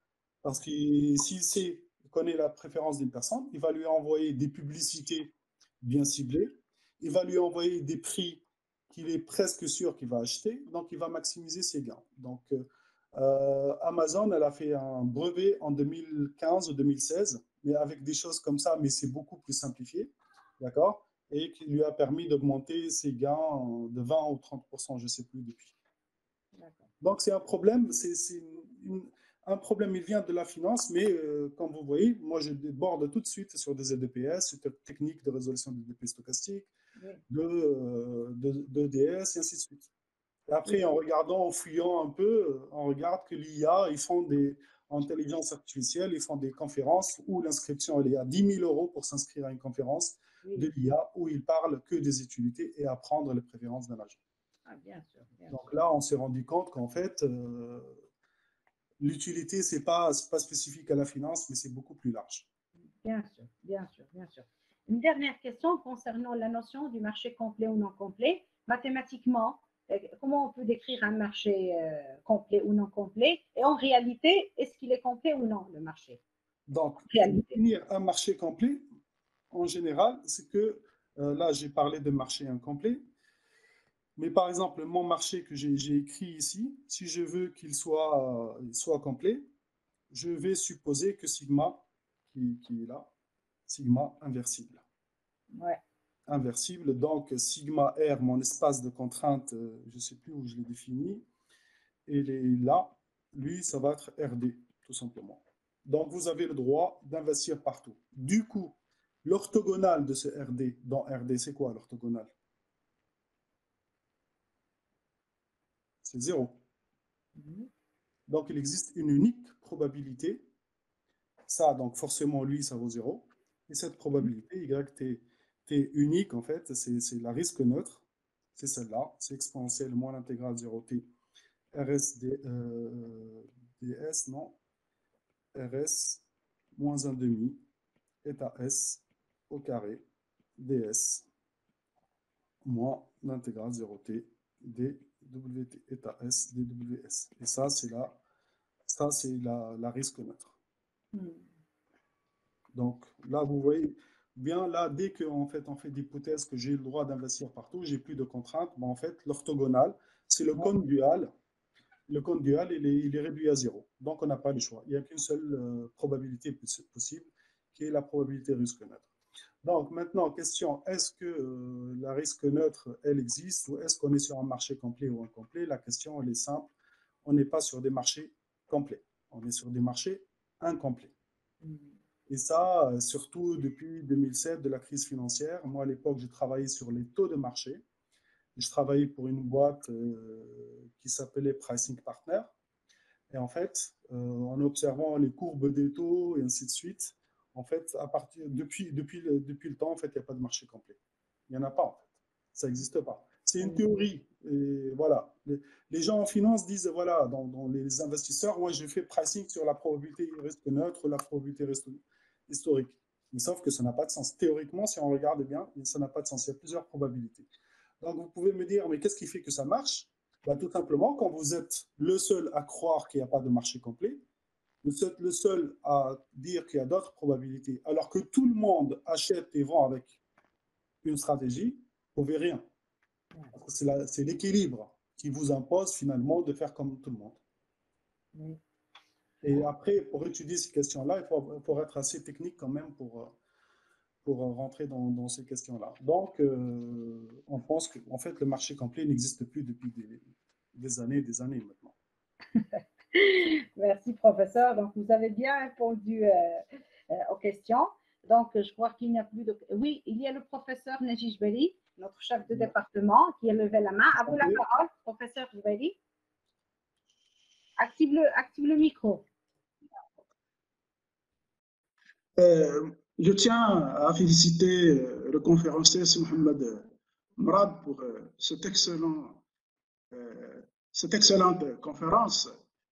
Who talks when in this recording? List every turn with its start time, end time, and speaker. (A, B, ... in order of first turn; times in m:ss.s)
0:00.4-0:25.7 A
0:26.5-0:26.9 B
0:27.0-0:36.7 A
0:37.3-0:39.9 A
0:40.5-0:54.2 A
0:50.4-0:50.7 B
0:54.7-0:55.6 B
0:55.5-0:58.0 A
0:59.0-1:02.5 A
1:03.0-1:16.2 B
1:16.7-1:18.8 A
1:17.1-1:17.6 B
1:19.5-1:23.0 A
1:24.2-1:29.5 A
1:30.1-1:33.1 A
1:33.7-1:34.8 A
1:35.5-1:35.8 B
1:36.3-1:41.3 A
1:42.1-1:52.3 A
1:56.0-1:56.6 A
1:57.4-1:57.7 B
1:58.3-2:00.4 A
2:01.5-2:08.0 A
2:08.5-2:11.1 A
2:11.7-2:14.6 A
2:15.5-2:16.2 A
2:16.7-2:17.6 A
2:18.2-2:20.0 A
2:20.6-2:21.2 A
2:22.6-2:28.2 A
2:28.9-2:30.5 A
2:31.1-2:31.4 B
2:32.7-2:41.3 A
2:42.1-2:49.1 A
2:49.6-2:56.7 A
2:57.2-3:01.1 A
3:01.6-3:01.9 B
3:02.3-3:07.8 A
3:08.6-3:12.5 A
3:13.3-3:37.5 A
3:38.0-3:44.2 A
3:44.8-3:50.2 A
3:51.0-3:52.6 A
3:53.5-3:57.4 A
3:58.3-3:58.6 B
3:59.4-4:03.4 A
4:04.2-4:11.9 A
4:12.5-4:26.0 B
4:24.2-4:24.6 A
4:27.8-4:29.3 B
4:32.4-4:36.8 C
4:37.4-4:39.4 C
4:40.1-4:42.6 C